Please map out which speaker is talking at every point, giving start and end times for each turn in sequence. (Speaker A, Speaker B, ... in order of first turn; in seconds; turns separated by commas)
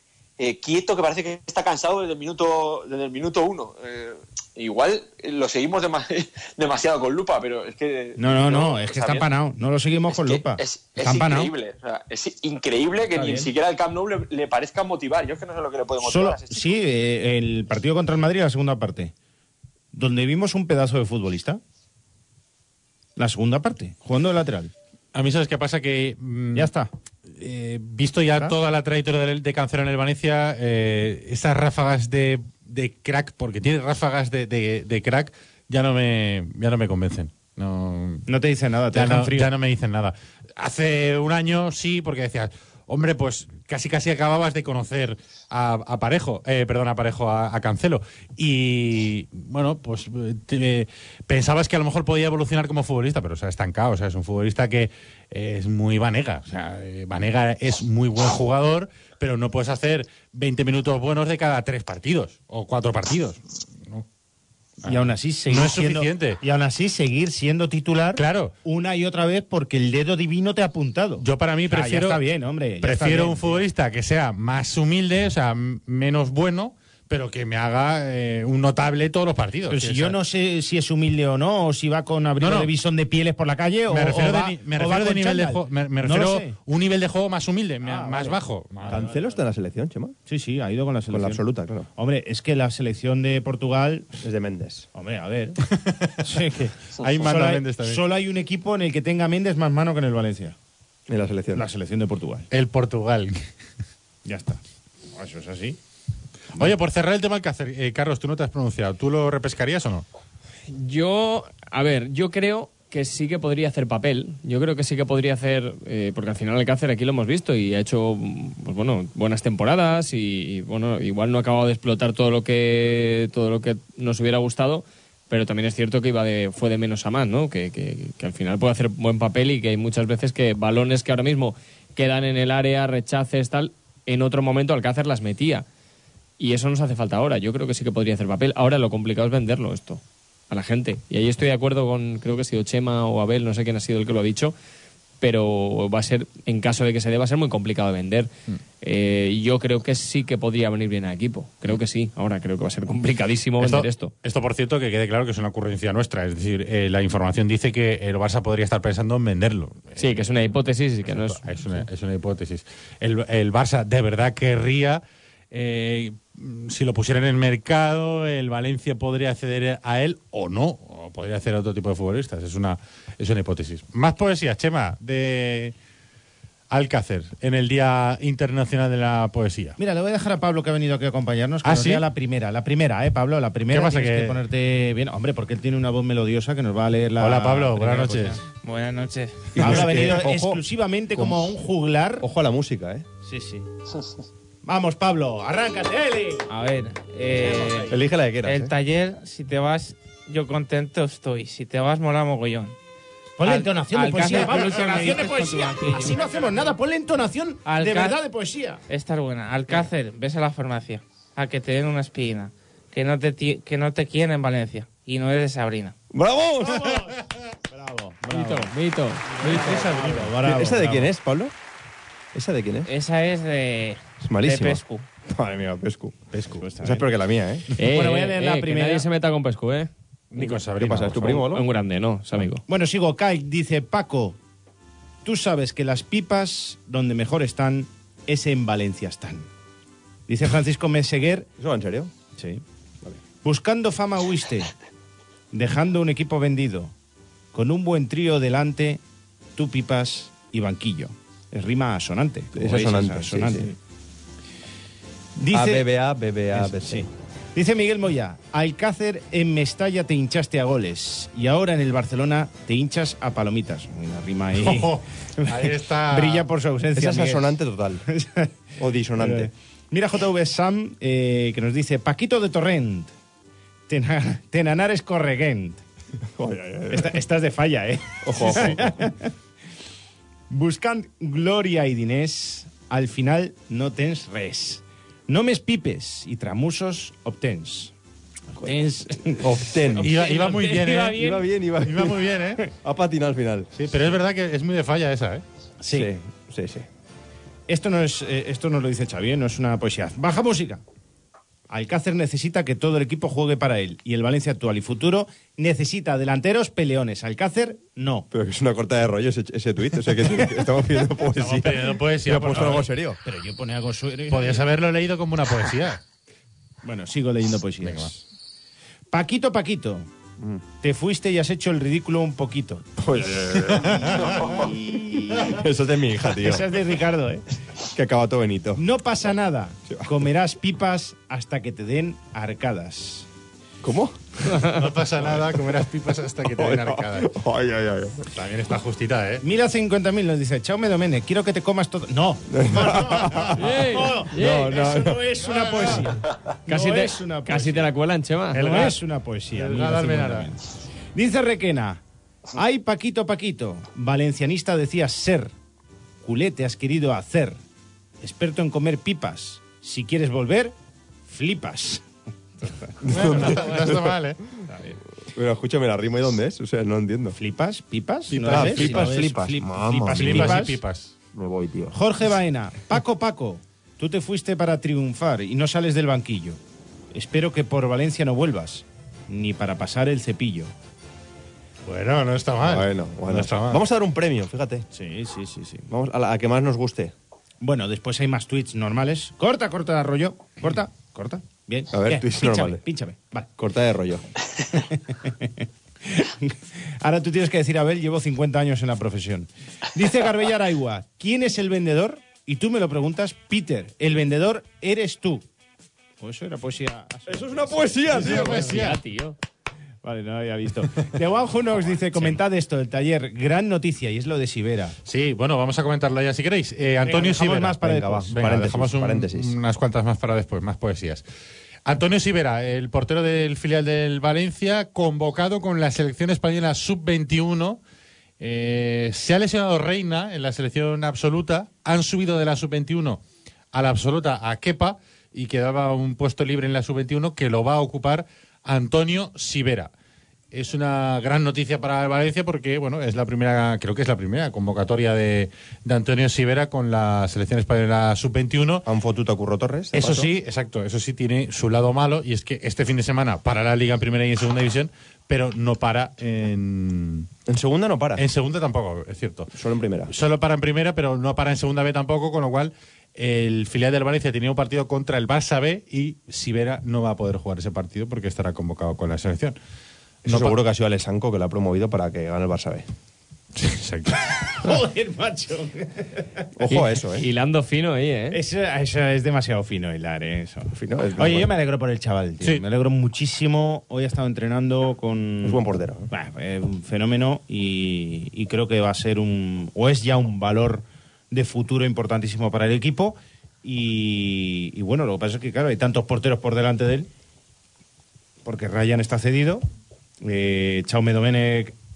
Speaker A: 0.4-9.3, Speaker B: 8.2-11.5, Speaker A: 10.1-16.8, Speaker B: 13.1-13.5, Speaker B: 16.0-19.1, Speaker B: 19.9-21.6, Speaker B: 23.2-24.7, Speaker C: 25.1-26.7, Speaker B: 26.5-26.9, Speaker C: 27.3-38.2, Speaker B: 38.3-39.5, Speaker C: 38.9-64.0, Speaker C: 64.8-66.4, Speaker B: 64.8-73.7, Speaker C: 68.2-68.5, Speaker C: 71.2-72.2, Speaker C: 72.8-80.2, Speaker B: 79.7-86.5, Speaker C: 82.4-82.7, Speaker C: 83.9-89.1, Speaker B: 87.8-89.1, Speaker D: 88.9-90.2, Speaker B: 90.3-94.2, Speaker D: 91.1-91.9, Speaker D: 94.2-94.9, Speaker B: 94.9-95.6, Speaker C: 95.7-96.2, Speaker B: 96.2-100.5, Speaker C: 97.0-98.0, Speaker D: 101.1-101.7, Speaker B: 101.5-102.5, Speaker C: 102.5-103.4, Speaker B: 104.2-104.6, Speaker B: 105.1-105.8, Speaker C: 106.5-110.0, Speaker E: 110.7-135.6, Speaker E: 136.4-144.5, Speaker E: 145.2-154.1, Speaker C: 153.6-160.2, Speaker E: 159.9-161.8, Speaker C: 161.1-175.7, Speaker C: 176.7-179.8, Speaker B: 179.8-188.4, Speaker C: 181.6-182.0, Speaker C: 183.7-184.4, Speaker C: 187.2-188.4, Speaker F: 188.6-189.5, Speaker D: 189.5-190.6, Speaker B: 189.6-192.3, Speaker D: 191.1-191.4, Speaker D: 192.2-193.1, Speaker B: 193.2-193.7, Speaker B: 194.6-196.5, Speaker F: 196.5-202.8, Speaker B: 197.3-197.9, Speaker D: 197.9-198.7, Speaker B: 203.4-208.8, Speaker F: 203.4-206.3, Speaker F: 207.6-208.2, Speaker F: 208.9-215.9, Speaker D: 216.1-217.0, Speaker B: 216.6-218.3, Speaker E: 218.2-219.6, Speaker C: 218.3-218.7, Speaker B: 219.4-221.1, Speaker C: 219.4-220.3, Speaker D: 220.4-221.5, Speaker D: 222.3-222.9, Speaker F: 222.8-225.1, Speaker D: 224.2-227.7, Speaker C: 226.3-226.6, Speaker B: 226.4-227.1, Speaker E: 227.8-230.6, Speaker B: 227.8-229.1, Speaker C: 230.3-231.5, Speaker D: 230.7-231.6, Speaker E: 231.3-232.6, Speaker B: 232.7-234.4, Speaker B: 235.2-239.5, Speaker B: 240.3-241.5, Speaker D: 241.6-242.1, Speaker B: 242.4-242.6, Speaker B: 243.2-244.7, Speaker B: 245.5-246.9, Speaker B: 247.5-249.0, Speaker B: 249.5-253.8, Speaker D: 252.6-253.7, Speaker B: 255.4-255.9, Speaker D: 255.5-257.1, Speaker B: 256.5-268.5, Speaker C: 264.6-266.5, Speaker D: 266.9-268.0, Speaker D: 268.8-269.5, Speaker B: 269.1-273.1, Speaker B: 273.9-275.8, Speaker D: 276.4-277.2, Speaker B: 276.9-279.3, Speaker D: 278.2-279.1, Speaker B: 280.5-287.9, Speaker B: 288.5-290.4, Speaker C: 289.4-291.2, Speaker D: 289.5-290.3, Speaker F: 290.2-291.4, Speaker D: 291.1-293.7, Speaker C: 291.8-292.6, Speaker C: 293.7-295.4, Speaker B: 295.8-296.2, Speaker D: 295.9-296.9, Speaker B: 297.7-300.8, Speaker B: 301.7-308.3, Speaker D: 308.3-313.2, Speaker B: 310.2-310.7, Speaker C: 311.3-312.9, Speaker B: 313.2-314.6, Speaker C: 314.3-316.0, Speaker B: 316.8-318.2, Speaker C: 317.8-318.1, Speaker B: 319.1-320.1, Speaker B: 320.8-323.0, Speaker D: 323.0-324.1, Speaker C: 323.7-324.4, Speaker B: 323.8-325.6, Speaker A: 324.2-324.7, Speaker D: 325.4-326.8, Speaker B: 326.2-327.4, Speaker D: 327.9-328.8, Speaker B: 328.7-333.3, Speaker D: 333.8-334.5, Speaker C: 334.6-337.3, Speaker D: 336.4-338.2, Speaker C: 338.3-339.4, Speaker B: 339.4-347.9, Speaker D: 342.5-343.7, Speaker E: 343.6-344.9, Speaker D: 344.3-345.4, Speaker E: 346.7-348.8, Speaker B: 348.5-352.0, Speaker C: 348.6-348.9, Speaker C: 349.5-350.5, Speaker B: 352.5-355.5, Speaker B: 356.2-357.6, Speaker B: 358.2-360.7, Speaker B: 361.2-362.0, Speaker B: 362.6-363.6, Speaker C: 363.0-364.4, Speaker D: 363.1-364.1, Speaker B: 364.6-365.0, Speaker D: 365.3-367.4, Speaker B: 367.3-370.8, Speaker C: 368.3-369.3, Speaker D: 368.4-370.7, Speaker C: 370.1-371.1, Speaker D: 371.3-371.9, Speaker B: 371.9-376.6, Speaker B: 377.1-380.7, Speaker C: 381.9-383.8, Speaker D: 382.6-384.9, Speaker B: 384.9-385.9, Speaker D: 385.9-387.1, Speaker B: 387.6-393.5, Speaker D: 391.9-392.8, Speaker D: 393.6-394.3, Speaker B: 394.7-405.4, Speaker B: 406.2-408.6, Speaker D: 407.3-408.8, Speaker C: 408.1-409.0, Speaker E: 408.1-409.4, Speaker B: 410.0-414.9, Speaker C: 415.1-421.2, Speaker B: 417.0-418.7, Speaker D: 417.8-419.6, Speaker C: 421.8-427.8, Speaker C: 428.4-433.2, Speaker C: 433.7-439.9, Speaker C: 440.5-448.9, Speaker D: 448.9-450.3, Speaker C: 449.9-457.3, Speaker D: 457.5-458.2, Speaker C: 458.2-459.5, Speaker D: 459.5-460.1, Speaker C: 460.1-469.6, Speaker C: 470.2-470.6, Speaker D: 470.2-472.9, Speaker C: 473.6-474.6, Speaker B: 474.6-476.4, Speaker D: 476.6-477.2, Speaker E: 476.7-478.4, Speaker B: 478.3-497.1, Speaker D: 480.7-481.5, Speaker D: 485.4-486.1, Speaker B: 498.4-499.6, Speaker B: 500.2-501.8